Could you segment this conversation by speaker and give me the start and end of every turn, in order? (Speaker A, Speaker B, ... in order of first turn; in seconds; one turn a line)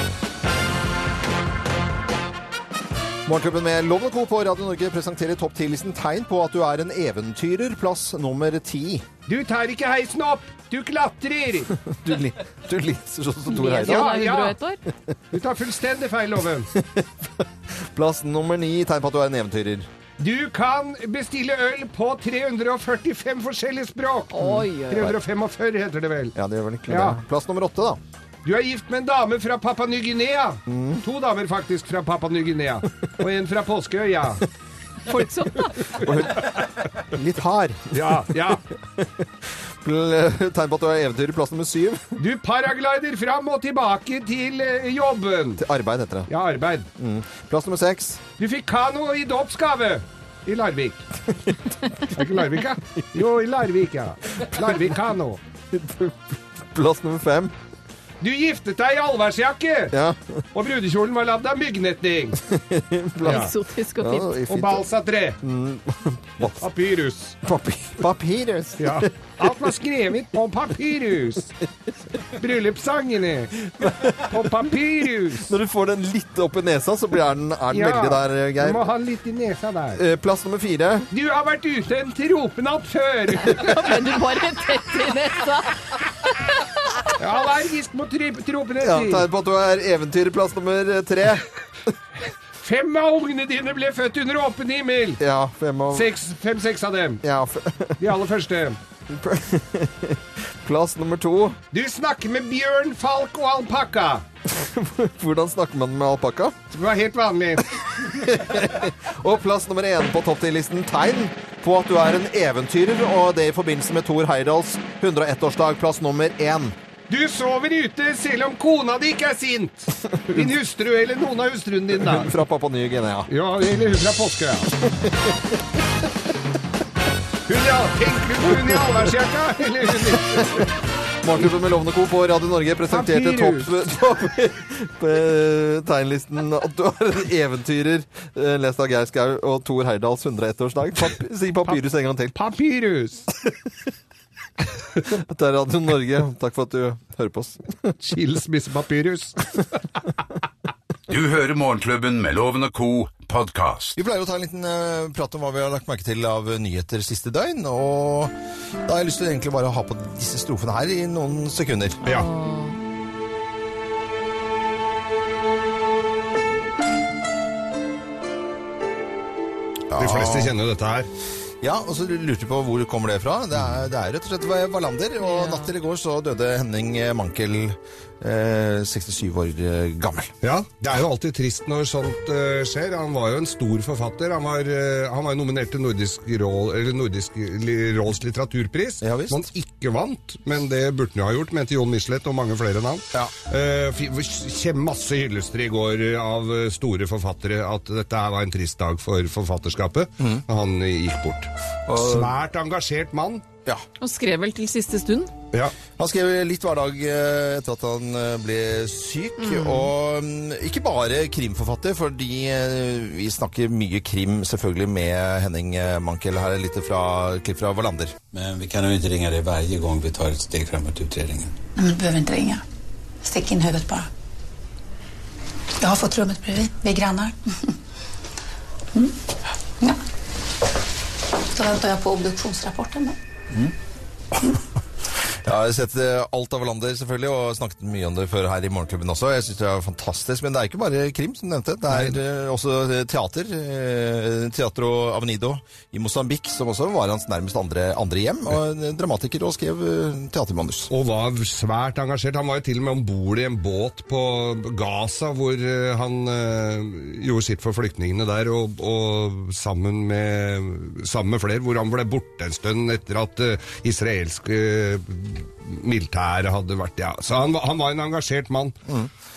Speaker A: 3.3-9.1
Speaker B: 9.3-11.7
Speaker A: 11.7-14.1
Speaker C: 13.5-14.8
Speaker B: 13.8-14.6
Speaker B: 15.3-16.7
Speaker A: 16.7-19.9
Speaker B: 20.2-26.4
Speaker C: 24.3-25.1
Speaker A: 26.4-28.0
Speaker B: 26.9-27.2
Speaker B: 28.4-34.4
Speaker A: 30.7-31.0
Speaker C: 35.1-36.0
Speaker A: 36.0-38.2
Speaker B: 37.9-38.6
Speaker A: 39.8-42.2
Speaker B: 42.2-45.6
Speaker A: 45.6-46.3
Speaker B: 46.3-46.9
Speaker A: 47.0-48.2
Speaker B: 48.4-51.0
Speaker B: 52.1-55.4
Speaker A: 55.7-57.5
Speaker B: 58.2-59.9
Speaker A: 59.9-60.4
Speaker B: 60.5-62.4
Speaker A: 62.4-64.9
Speaker C: 63.2-64.3
Speaker B: 63.2-63.5
Speaker B: 64.5-65.4
Speaker A: 65.4-66.7
Speaker B: 66.6-67.4
Speaker A: 67.4-69.1
Speaker B: 68.8-71.5
Speaker B: 72.4-75.5
Speaker A: 73.8-74.6
Speaker A: 75.3-79.0
Speaker B: 77.7-80.0
Speaker A: 80.0-81.1
Speaker B: 81.1-83.7
Speaker C: 83.4-85.8
Speaker B: 87.2-89.3
Speaker A: 88.8-91.5
Speaker B: 92.6-95.2
Speaker A: 95.2-96.1
Speaker B: 95.9-97.2
Speaker A: 97.2-98.1
Speaker B: 98.0-98.8
Speaker A: 99.1-101.6
Speaker B: 101.7-104.2
Speaker A: 104.5-106.6
Speaker B: 106.7-107.8
Speaker A: 108.0-116.8
Speaker B: 117.1-122.3
Speaker A: 121.9-123.3
Speaker B: 123.3-124.7
Speaker A: 124.9-125.4
Speaker B: 127.5-130.7
Speaker A: 131.2-142.4
Speaker B: 132.9-133.7
Speaker B: 142.3-143.3
Speaker A: 145.1-147.9
Speaker B: 148.0-149.8
Speaker D: 151.1-154.0
Speaker A: 154.0-158.3
Speaker A: 158.9-162.0
Speaker C: 162.0-162.8
Speaker A: 169.9-170.6
Speaker B: 170.0-171.1
Speaker A: 171.6-180.3
Speaker C: 175.2-175.7
Speaker B: 180.4-203.4
Speaker A: 189.0-189.5
Speaker A: 201.9-202.3
Speaker C: 204.0-205.3
Speaker A: 206.0-218.2
Speaker C: 209.4-209.9
Speaker E: 218.3-221.6
Speaker F: 221.8-222.6
Speaker F: 223.2-224.1
Speaker F: 225.8-227.4
Speaker F: 231.5-233.2
Speaker A: 235.4-250.9
Speaker B: 241.9-242.2
Speaker B: 250.9-268.8